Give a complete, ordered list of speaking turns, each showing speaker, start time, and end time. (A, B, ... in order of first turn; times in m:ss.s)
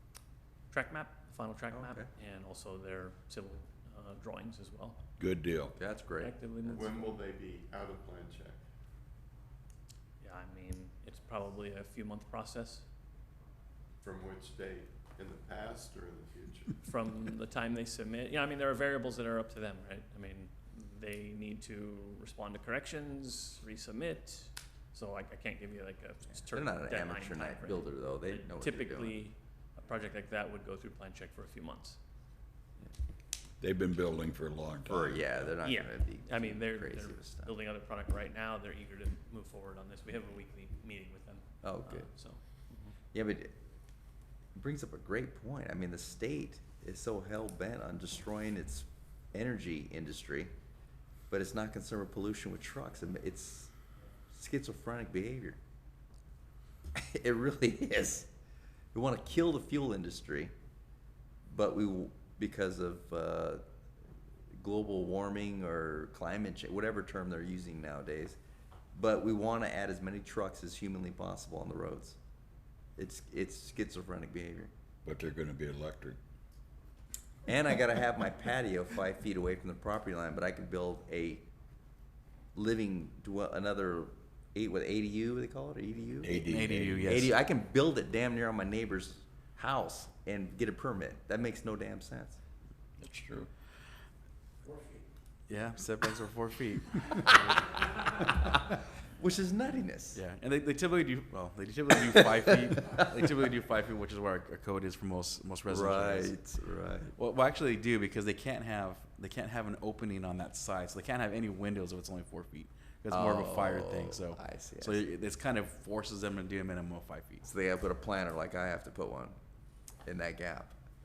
0:00.7-0:05.0 A
0:01.7-0:02.1 B
0:05.2-0:05.7 C
0:05.8-0:06.3 B
0:06.2-0:07.0 A
0:06.7-0:08.6 D
0:10.2-0:12.8 A
0:14.0-0:16.8 D
0:16.8-0:32.0 A
0:26.5-0:29.2 B
0:33.6-0:35.5 C
0:34.8-0:37.5 B
0:35.6-0:42.9 A
0:41.6-0:42.1 B
0:43.1-0:43.6 B
0:44.6-0:50.5 B
0:51.3-0:53.7 B
0:54.3-0:55.6 B
0:56.9-0:58.3 B
0:58.9-1:00.5 B
1:01.5-1:03.6 B
1:04.5-1:08.4 B
1:08.9-1:12.2 B
1:13.0-1:14.7 B
1:15.0-1:16.2 C
1:17.4-1:21.4 B
1:22.5-1:26.4 B
1:26.2-1:27.1 C
1:26.4-1:27.3 E
1:27.0-1:32.4 B
1:33.0-1:33.5 C
1:35.5-1:37.9 E
1:39.1-1:40.2 B
1:40.1-1:46.4 E
1:45.6-1:47.1 B
1:47.1-1:57.4 E
1:53.1-1:55.1 B
1:57.4-1:59.4 B
2:00.0-2:00.8 B